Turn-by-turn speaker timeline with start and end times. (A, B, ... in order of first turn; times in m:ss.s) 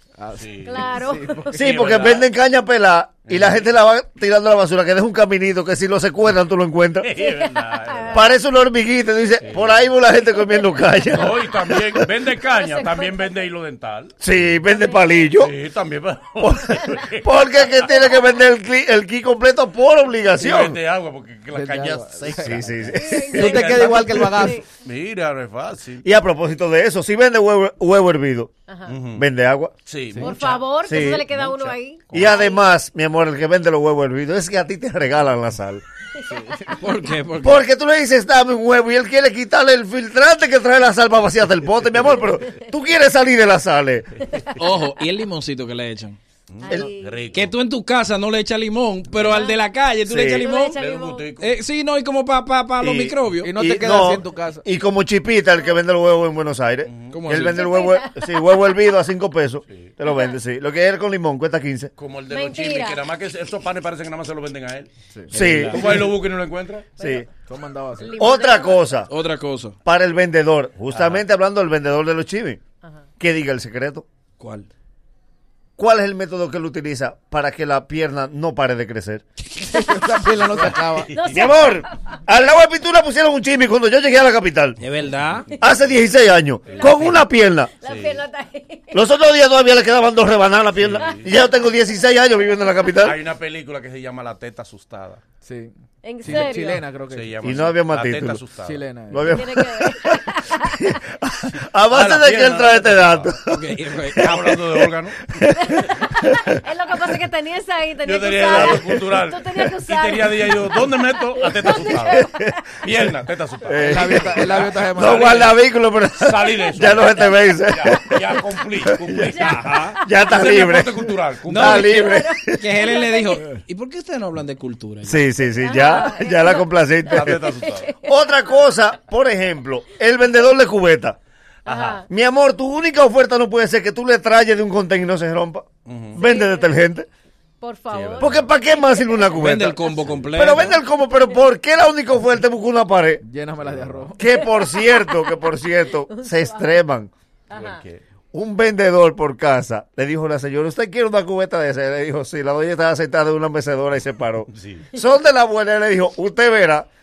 0:00.2-0:01.5 A
0:00.3-0:00.9 B
0:00.6-0:01.6 C
0:01.5-0:07.1 D
0:01.6-0:02.3 B
0:03.3-0:03.7 B
0:07.0-0:08.3 B
0:07.2-0:08.4 C
0:08.1-0:12.0 D
0:09.4-0:09.9 B
0:10.2-0:11.3 C
0:11.1-0:14.5 B
0:12.4-0:13.5 C
0:14.2-0:15.5 D
0:14.7-0:15.3 C
0:15.4-0:17.2 B
0:16.4-0:20.8 D
0:16.7-0:17.0 C
0:18.0-0:18.3 C
0:20.4-0:26.1 B
0:21.5-0:22.8 A
0:22.3-0:24.1 D
0:22.9-0:24.6 C
0:23.3-0:24.6 A
0:26.0-0:28.5 D
0:28.7-0:29.0 C
0:28.8-0:29.2 B
0:29.1-0:29.7 D
0:29.9-0:32.5 B
0:30.2-0:32.7 C
0:30.9-0:31.2 D
0:32.1-0:35.8 D
0:36.2-0:36.9 C
0:36.3-0:36.8 A
0:36.8-0:37.6 E
0:37.4-0:44.2 D
0:44.3-0:44.8 C
0:44.6-0:46.2 E
0:46.5-0:47.5 B
0:46.6-0:47.4 C
0:47.3-0:50.8 E
0:49.2-0:49.6 C
0:50.1-0:50.5 D
0:50.3-0:51.4 C
0:50.8-0:51.6 B
0:51.4-0:53.6 E
0:52.8-1:01.9 D
0:53.4-0:54.7 A
0:56.8-0:57.3 B
0:57.1-0:57.6 E
0:57.4-0:59.0 C
0:59.7-0:59.9 B
1:00.1-1:00.3 C
1:02.0-1:04.9 B
1:02.3-1:03.1 C
1:05.3-1:06.0 E
1:05.3-1:06.1 D
1:05.4-1:06.9 B
1:07.0-1:07.3 C
1:07.0-1:07.3 D
1:07.5-1:08.3 A
1:08.0-1:09.0 C
1:08.2-1:09.1 D
1:09.1-1:09.8 E
1:09.8-1:12.6 D
1:10.9-1:11.2 B
1:12.8-1:13.1 C
1:13.2-1:14.0 D
1:14.4-1:14.7 E
1:15.8-1:19.2 D
1:19.6-1:21.1 A
1:20.6-1:21.5 B
1:20.9-1:22.2 C
1:21.3-1:24.8 D
1:24.8-1:25.5 E
1:25.5-1:26.0 C
1:25.6-1:27.7 D
1:26.7-1:27.2 B
1:26.7-1:29.1 C
1:27.8-1:28.2 B
1:28.9-1:33.2 D
1:30.8-1:31.3 B
1:33.0-1:35.2 B
1:35.4-1:37.7 A
1:36.0-1:36.8 C
1:36.4-1:38.9 B
1:37.4-1:38.4 D
1:38.6-1:39.4 A
1:39.1-1:40.1 D
1:39.2-1:41.0 C
1:40.9-1:46.4 D
1:41.4-1:43.4 B
1:43.5-1:44.2 E
1:44.2-1:45.9 B
1:45.6-1:52.8 C
1:48.0-1:52.3 B
1:48.5-1:49.0 D
1:52.1-1:52.5 D
1:52.8-1:55.6 B
1:53.7-1:58.2 D
1:53.8-1:55.5 A
1:56.2-1:59.6 B
1:57.1-1:57.7 C
1:58.9-2:02.7 D
1:59.2-2:00.4 C
1:59.4-2:00.0 E
2:00.2-2:02.0 B
2:01.5-2:05.2 E
2:01.6-2:03.6 C
2:05.0-2:07.5 D
2:05.6-2:08.6 C
2:07.1-2:07.9 B
2:08.0-2:11.2 D
2:11.6-2:12.0 B
2:11.7-2:12.1 C
2:12.1-2:17.1 D
2:15.9-2:16.2 B
2:16.1-2:16.9 C
2:17.6-2:20.1 C
2:17.9-2:18.6 B
2:18.2-2:19.8 D
2:19.4-2:20.8 E
2:20.0-2:20.6 B
2:20.3-2:23.2 D
2:21.1-2:21.4 C
2:23.2-2:24.2 A
2:23.6-2:24.1 B
2:24.2-2:27.1 D
2:24.4-2:26.8 C
2:27.5-2:27.8 C
2:27.5-2:28.0 B
2:28.3-2:36.9 D
2:34.5-2:34.9 B